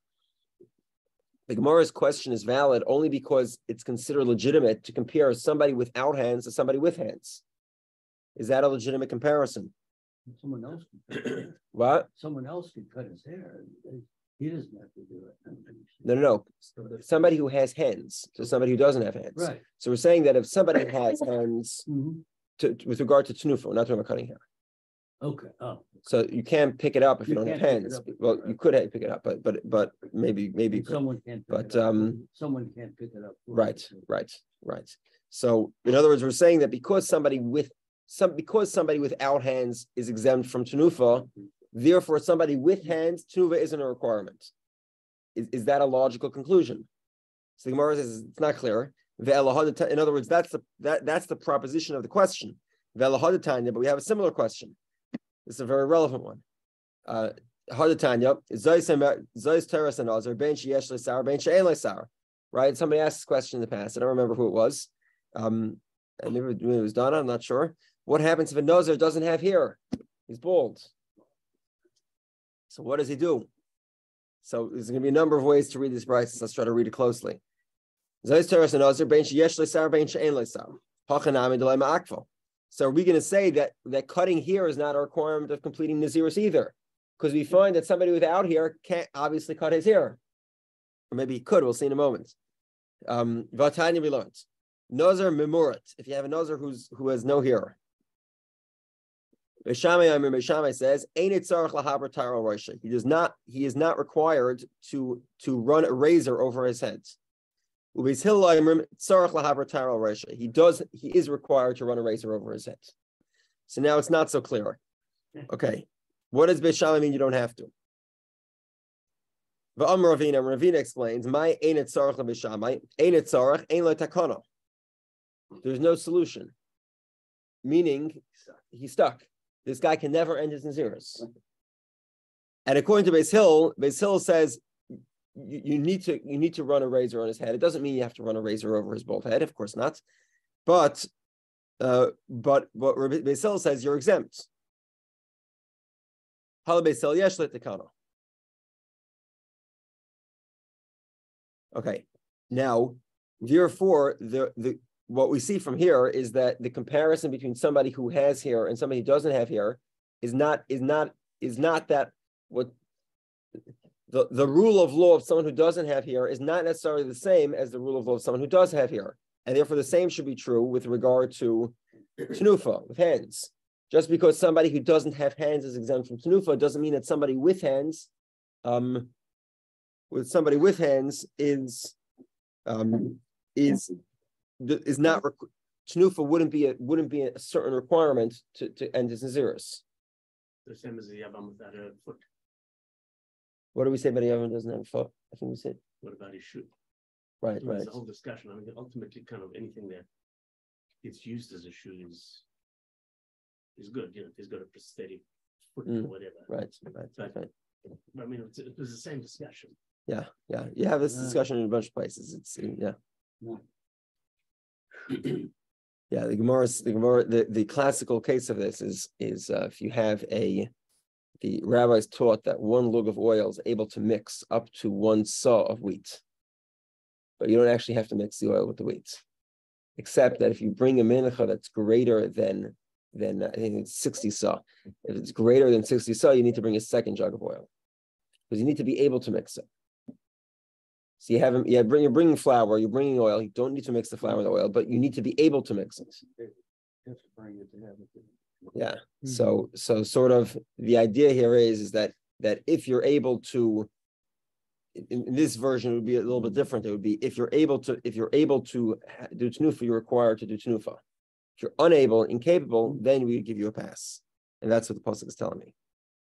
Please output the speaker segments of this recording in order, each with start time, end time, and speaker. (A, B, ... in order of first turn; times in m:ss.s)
0:01.5-0:07.4 A
0:08.4-0:09.7 A
0:10.3-0:11.5 B
0:11.7-0:12.1 A
0:12.1-0:16.0 B
0:16.0-0:21.8 A
0:16.8-0:17.0 B
0:19.4-0:19.6 B
0:21.9-0:22.2 B
0:22.6-0:24.4 A
0:25.2-0:25.9 B
0:26.0-0:32.2 A
0:27.2-0:28.6 B
0:30.7-0:33.9 B
0:33.5-0:44.5 A
0:45.3-0:46.9 A
0:47.6-0:54.8 A
0:55.4-0:56.4 A
0:57.0-1:10.9 A
1:12.7-1:13.5 A
1:14.4-1:17.4 A
1:18.2-1:30.2 A
1:31.1-1:32.3 A
1:33.0-1:37.8 A
1:39.6-1:47.2 A
1:47.9-1:52.9 A
1:53.7-1:54.8 A
1:55.5-1:57.7 A
1:59.8-2:04.4 A
2:05.6-2:06.5 A
2:07.6-2:11.3 A
2:12.6-2:14.6 A
2:15.3-2:20.0 A
2:20.6-2:21.1 A
2:21.8-2:24.5 A
2:26.6-2:27.9 A
2:31.7-2:42.7 A
2:44.1-2:58.1 A
2:58.6-2:59.1 A
3:00.1-3:02.0 A
3:02.6-3:04.0 A
3:04.6-3:09.8 A
3:10.6-3:12.2 C
3:13.7-3:15.8 A
3:16.0-3:16.7 C
3:17.4-3:17.9 A
3:17.6-3:20.0 C
3:21.0-3:22.4 C
3:23.8-3:25.2 C
3:25.7-3:26.5 C
3:25.8-3:27.5 A
3:28.1-3:29.7 C
3:30.1-3:33.0 A
3:31.1-3:31.4 B
3:36.1-3:40.7 A
3:41.4-3:46.2 A
3:47.4-3:49.2 A
3:50.0-3:57.7 A
3:58.5-3:59.7 A
4:01.2-4:06.2 A
4:07.0-4:08.3 B
4:08.7-4:13.9 A
4:14.9-4:21.0 A
4:21.6-4:25.7 A